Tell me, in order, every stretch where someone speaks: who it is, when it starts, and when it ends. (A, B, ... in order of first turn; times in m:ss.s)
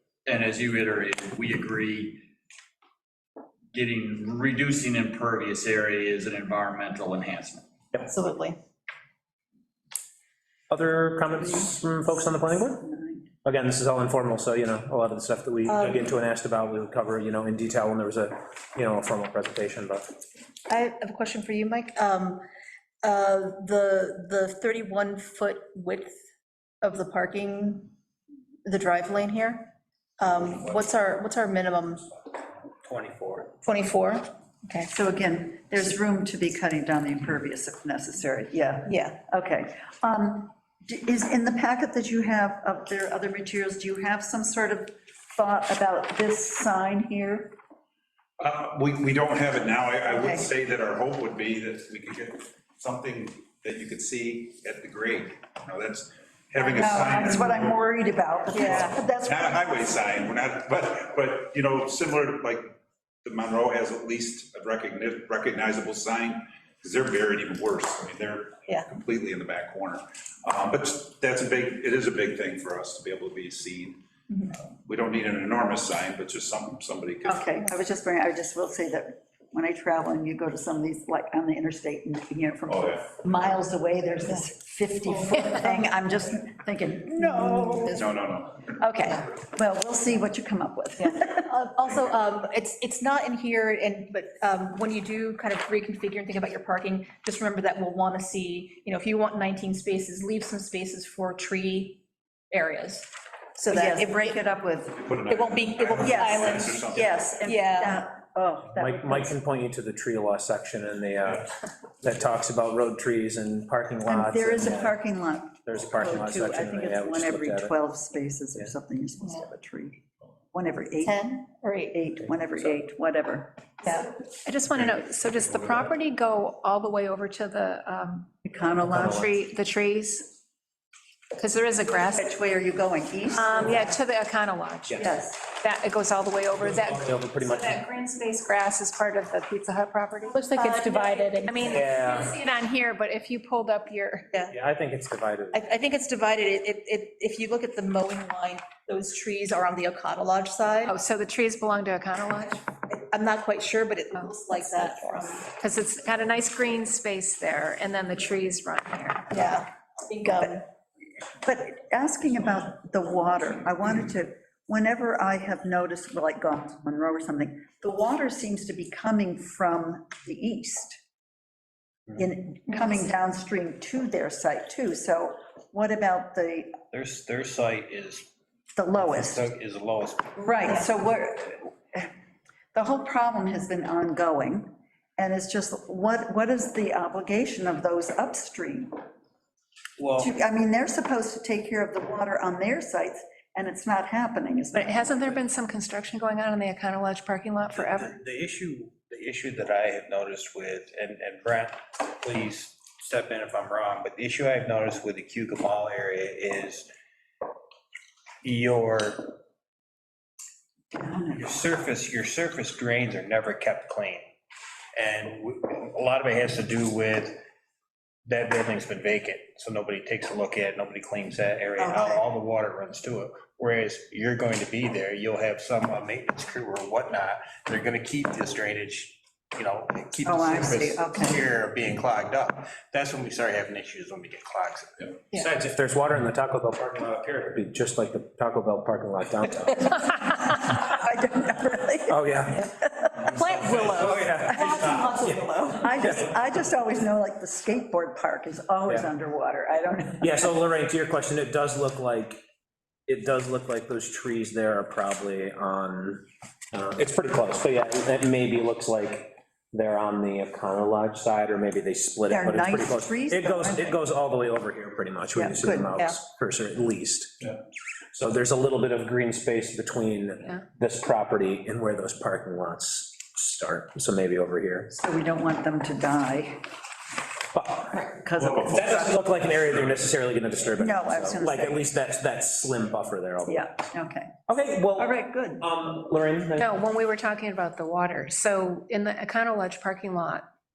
0:00.2-0:02.2 A
0:03.7-0:07.6 A
0:08.1-0:08.6 B
0:10.7-0:12.8 C
0:12.7-0:13.2 D
0:13.4-0:20.0 C
0:15.6-0:16.1 B
0:20.7-0:22.4 B
0:23.0-0:26.2 B
0:26.8-0:27.9 B
0:28.6-0:32.1 B
0:32.8-0:33.5 E
0:33.6-0:34.9 B
0:34.9-0:47.5 D
0:38.9-0:39.2 B
0:48.4-0:57.9 F
0:50.1-0:50.4 D
0:56.6-0:59.6 D
0:58.5-0:58.9 B
0:58.6-1:17.4 F
1:17.2-1:28.0 D
1:22.7-1:23.1 F
1:27.2-1:28.1 B
1:27.9-1:28.8 F
1:28.8-1:31.5 D
1:31.0-1:44.4 B
1:43.7-1:45.0 D
1:44.9-1:47.5 F
1:45.3-1:48.0 B
1:46.0-1:49.4 D
1:48.7-1:51.5 C
1:52.0-1:55.0 C
1:54.0-2:00.0 D
1:55.6-1:57.7 C
2:00.5-2:01.4 D
2:01.0-2:02.0 B
2:01.9-2:03.5 D
2:03.8-2:04.1 B
2:04.4-2:08.3 G
2:05.5-2:05.9 F
2:08.4-2:09.3 D
2:08.8-2:09.3 C
2:09.2-2:10.4 G
2:11.3-2:12.3 G
2:12.1-2:14.0 D
2:13.4-2:24.3 G
2:14.9-2:15.2 C
2:15.0-2:15.4 D
2:16.6-2:17.8 C
2:20.3-2:21.9 B
2:21.6-2:22.3 C
2:24.5-2:25.6 C
2:25.5-2:30.9 B
2:30.9-2:32.6 G
2:32.8-2:35.5 B
2:34.1-2:35.0 G
2:35.5-2:39.3 G
2:39.3-2:40.6 B
2:40.3-2:40.6 D
2:41.4-2:51.0 D
2:52.2-2:56.7 D
2:56.9-2:58.3 E
2:58.8-2:59.4 D
2:58.9-3:00.4 E
3:00.4-3:02.1 D
3:02.7-3:09.0 D
3:10.0-3:10.3 E
3:10.2-3:15.4 D
3:14.7-3:18.2 G
3:17.7-3:26.9 E
3:28.4-3:29.4 E
3:30.9-3:31.5 D
3:31.3-3:34.3 E
3:34.9-3:37.4 E
3:38.2-3:55.5 E
3:41.8-3:42.2 D
3:50.2-3:51.4 D
3:55.6-4:00.2 C
4:00.5-4:02.2 D
4:02.1-4:02.7 C
4:02.8-4:03.3 D
4:03.2-4:05.9 B
4:03.5-4:04.2 F
4:03.9-4:05.5 C
4:04.5-4:04.8 D
4:05.8-4:10.5 D
4:10.2-4:12.4 C
4:13.1-4:27.5 C
4:22.3-4:24.0 D
4:25.3-4:25.9 D
4:28.1-4:34.9 C
4:34.9-4:36.6 D
4:37.5-4:43.9 C
4:37.9-4:39.2 D
4:40.8-4:41.9 D
4:43.4-4:44.3 D
4:44.5-4:46.8 C
4:44.9-4:45.6 D
4:46.6-4:50.4 G